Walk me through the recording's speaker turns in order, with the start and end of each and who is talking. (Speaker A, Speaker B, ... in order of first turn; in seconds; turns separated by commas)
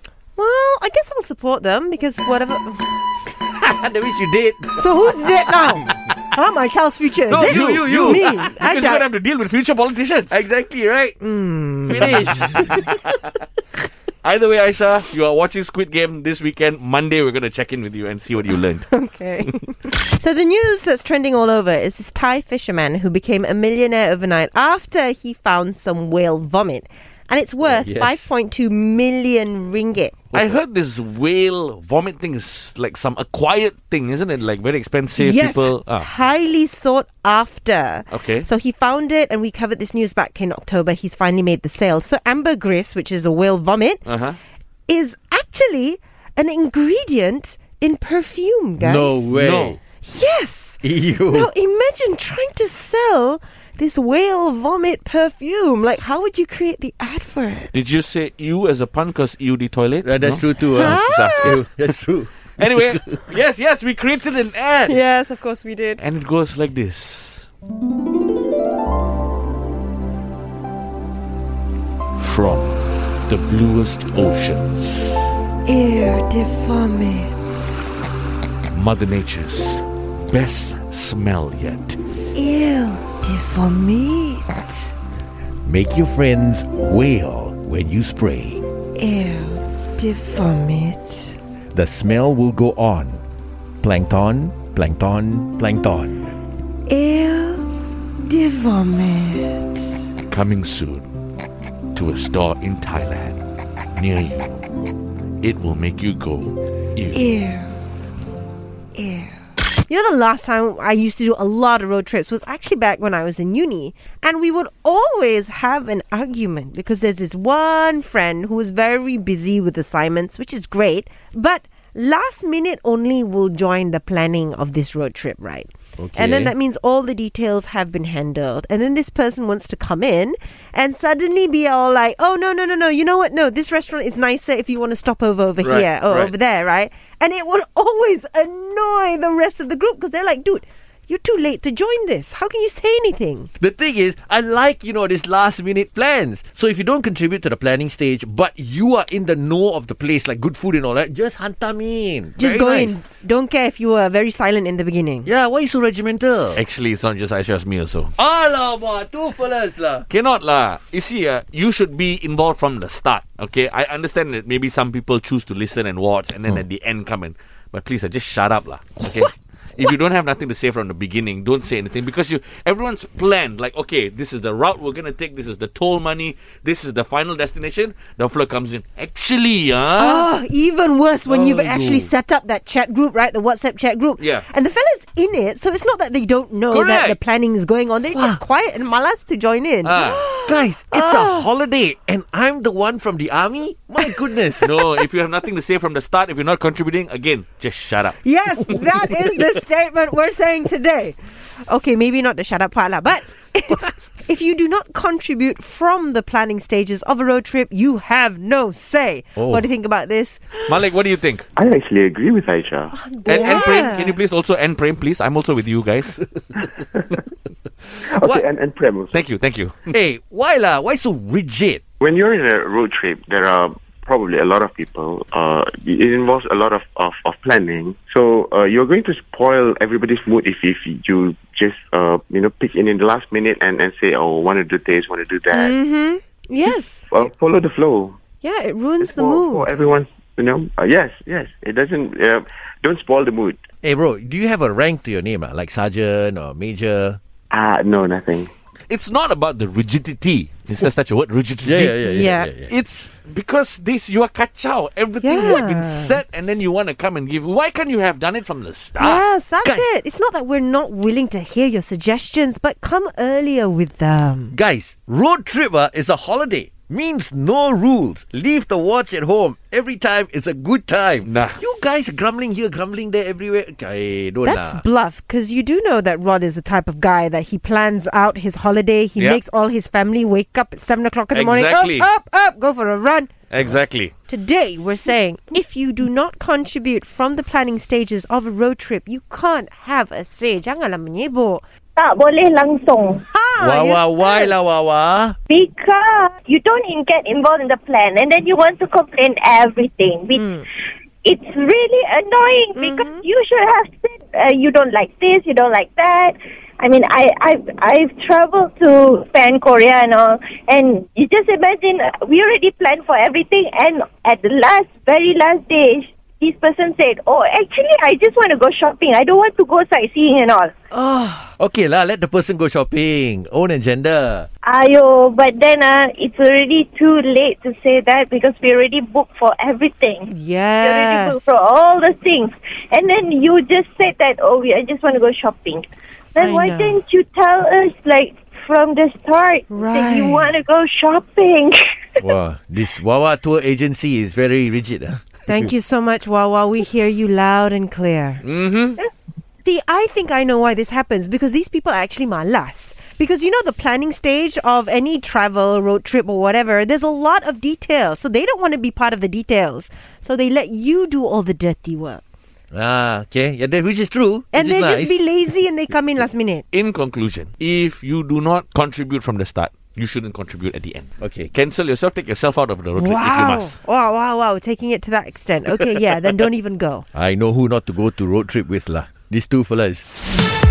Speaker A: 0.3-2.9, Speaker B: 3.5-5.1, Speaker A: 4.8-9.0, Speaker C: 7.3-10.4, Speaker B: 7.3-8.4, Speaker B: 10.3-11.2, Speaker A: 11.2-12.3, Speaker B: 11.9-13.0, Speaker C: 14.2-18.9, Speaker A: 18.9-30.2, Speaker B: 27.6-28.3, Speaker C: 30.3-36.1, Speaker A: 35.1-44.0, Speaker C: 38.1-38.5, Speaker C: 44.0-44.4, Speaker A: 44.9-49.3, Speaker B: 48.8-49.8, Speaker C: 49.3-49.8, Speaker A: 50.0-50.8, Speaker B: 50.8-51.5, Speaker A: 51.3-57.7, Speaker C: 57.7-61.7, Speaker B: 60.0-63.1, Speaker A: 60.8-61.5, Speaker C: 62.6-65.0, Speaker A: 64.9-66.0, Speaker C: 66.0-67.5, Speaker C: 72.2-75.3, Speaker A: 75.7-77.4, Speaker C: 78.7-82.0, Speaker A: 82.3-84.9, Speaker B: 85.6-88.6, Speaker A: 89.0-91.4, Speaker B: 91.7-93.2, Speaker B: 93.8-96.3, Speaker A: 96.9-97.7, Speaker A: 98.2-100.0, Speaker C: 100.2-101.1, Speaker C: 101.9-103.4, Speaker C: 104.0-104.6, Speaker C: 105.4-107.2, Speaker A: 107.1-107.7, Speaker A: 108.9-109.3, Speaker A: 109.9-143.5, Speaker B: 126.0-126.5, Speaker B: 135.6-136.3, Speaker B: 143.6-152.9, Speaker A: 152.4-155.3, Speaker B: 155.2-156.6, Speaker C: 156.5-158.1, Speaker B: 158.2-160.1, Speaker C: 160.1-180.3, Speaker A: 180.0-191.5, Speaker C: 181.3-182.1, Speaker B: 181.3-181.6, Speaker C: 184.2-184.4, Speaker C: 186.7-187.2, Speaker B: 188.1-188.4, Speaker C: 189.8-190.3, Speaker B: 190.4-194.7, Speaker C: 194.6-198.7, Speaker A: 198.2-210.6, Speaker B: 209.4-209.7, Speaker C: 210.6-211.5, Speaker D: 211.6-213.7, Speaker A: 212.9-214.2, Speaker C: 213.3-216.2, Speaker D: 218.0-219.2, Speaker C: 219.1-219.9, Speaker B: 219.9-221.8, Speaker D: 222.0-235.7, Speaker A: 235.5-237.1, Speaker D: 237.1-238.2, Speaker A: 238.4-239.7, Speaker D: 239.0-243.6, Speaker B: 243.8-247.2, Speaker D: 247.5-248.5, Speaker C: 248.9-252.0, Speaker B: 251.6-252.7, Speaker A: 252.1-252.5, Speaker C: 252.7-259.2, Speaker A: 255.2-256.2, Speaker A: 258.9-264.6, Speaker B: 264.5-274.8, Speaker C: 271.2-271.6, Speaker A: 274.4-283.3, Speaker C: 279.2-279.4, Speaker C: 281.3-282.1, Speaker C: 283.5-284.1, Speaker A: 284.3-291.6, Speaker E: 291.9-293.2, Speaker A: 293.3-294.5, Speaker B: 293.6-295.4, Speaker E: 295.5-300.6, Speaker A: 300.4-300.6, Speaker E: 301.2-320.7, Speaker A: 302.8-303.2, Speaker A: 320.9-321.5, Speaker B: 321.6-324.5, Speaker E: 324.6-342.2, Speaker A: 330.3-331.4, Speaker A: 336.4-337.0, Speaker A: 339.7-340.6, Speaker B: 342.2-345.2, Speaker A: 345.5-348.4, Speaker C: 348.4-349.0, Speaker A: 349.6-362.2, Speaker B: 362.7-365.2, Speaker A: 364.5-366.6, Speaker C: 366.7-373.8, Speaker B: 371.2-371.5, Speaker A: 372.9-377.1, Speaker B: 377.1-380.1